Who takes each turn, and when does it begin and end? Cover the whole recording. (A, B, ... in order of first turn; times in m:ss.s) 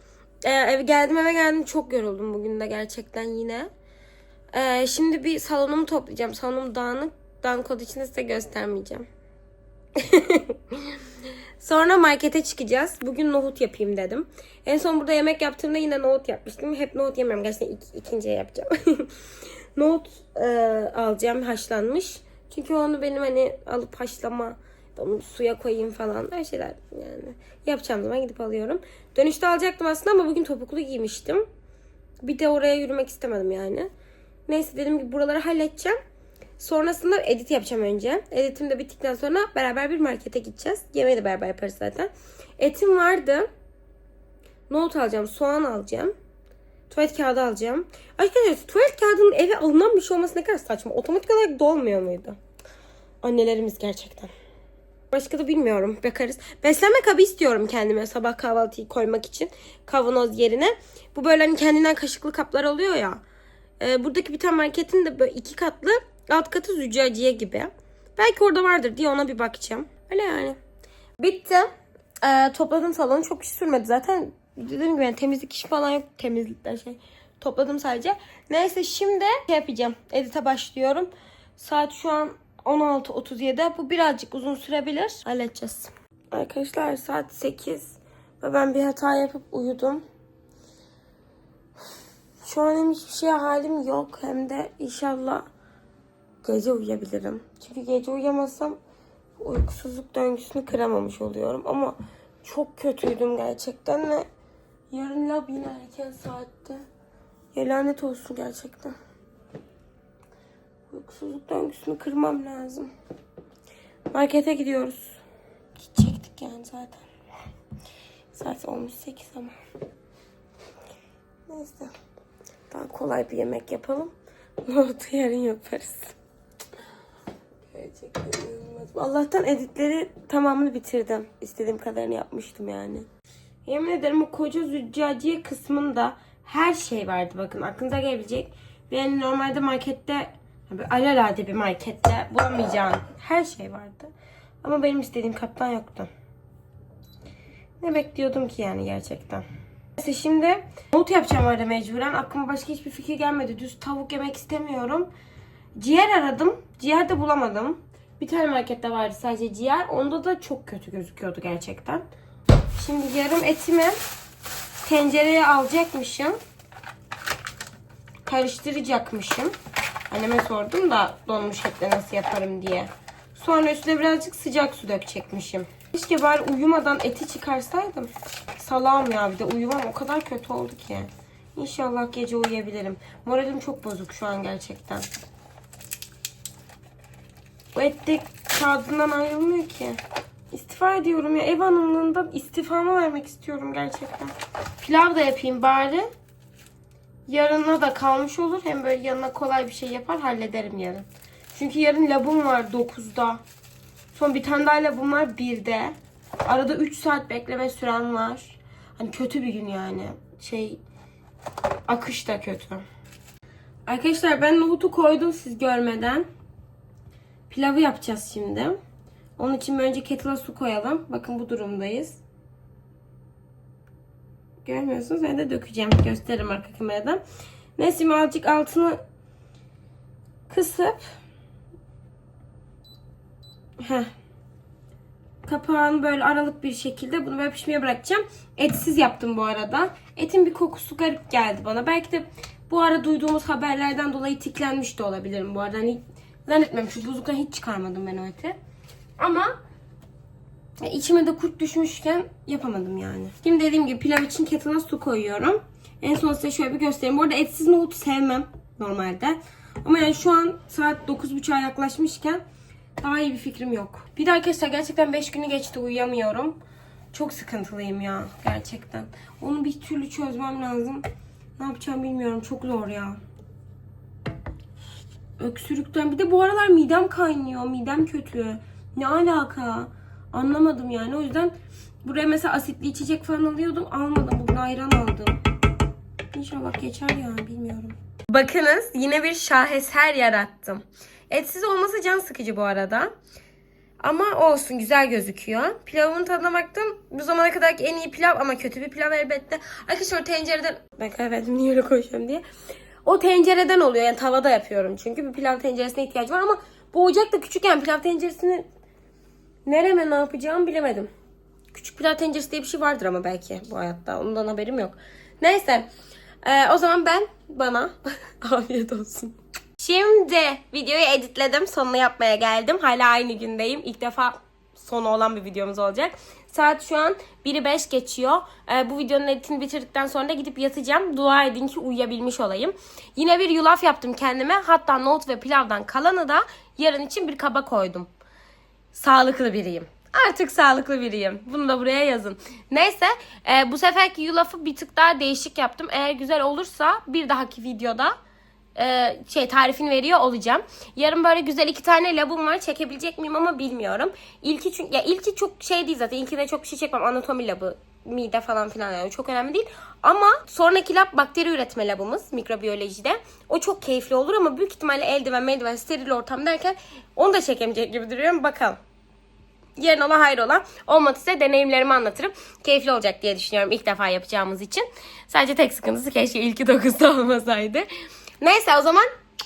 0:00.4-0:03.7 A
0:04.5-0:09.0 A
0:10.0-0:11.0 A
0:11.6-0:19.2 A
0:19.7-0:31.4 A
0:32.2-0:33.9 A
0:34.5-0:36.0 A
0:36.6-0:43.5 A
0:44.7-0:46.1 A
0:46.9-0:52.4 A
0:53.2-0:54.3 A
0:55.1-1:03.2 A
1:03.8-1:10.6 A
1:11.2-1:11.7 A
1:12.2-1:30.0 A
1:32.4-1:35.4 A
1:36.4-1:38.8 A
1:39.4-1:44.3 A
1:44.9-1:46.8 A
1:47.5-1:49.0 A
1:50.9-1:52.9 A
1:54.1-1:55.2 A
1:55.8-1:57.0 A
1:58.3-1:59.6 A
2:01.5-2:01.9 A
2:02.7-2:06.2 A
2:07.6-2:13.1 A
2:13.6-2:24.1 A
2:24.6-2:26.1 A
2:27.8-2:29.4 A
2:30.0-2:35.1 A
2:35.8-2:42.0 A
2:42.7-2:44.0 A
2:44.8-2:46.4 A
2:48.2-2:49.5 A
2:50.1-3:05.1 A
3:07.7-3:16.1 A
3:17.3-3:23.4 A
3:24.1-3:30.8 A
3:31.8-3:32.8 A
3:33.8-3:36.2 A
3:37.5-3:38.8 A
3:39.4-3:42.2 A
3:44.6-3:47.2 A
3:47.8-3:49.0 A
3:50.5-3:51.0 A
3:53.8-3:54.1 A
3:55.4-4:08.6 A
4:09.2-4:09.5 A
4:10.8-4:22.4 A
4:23.0-4:26.6 A
4:27.1-4:31.0 A
4:31.6-4:33.2 A
4:35.4-4:45.4 A
4:46.3-4:53.1 A
4:54.0-5:02.4 A
5:03.0-5:08.6 A
5:09.6-5:11.1 A
5:11.7-5:15.9 A
5:16.4-5:38.1 A
5:38.9-5:48.2 A
5:48.8-6:08.8 A
6:09.8-6:17.9 A
6:18.4-6:19.1 A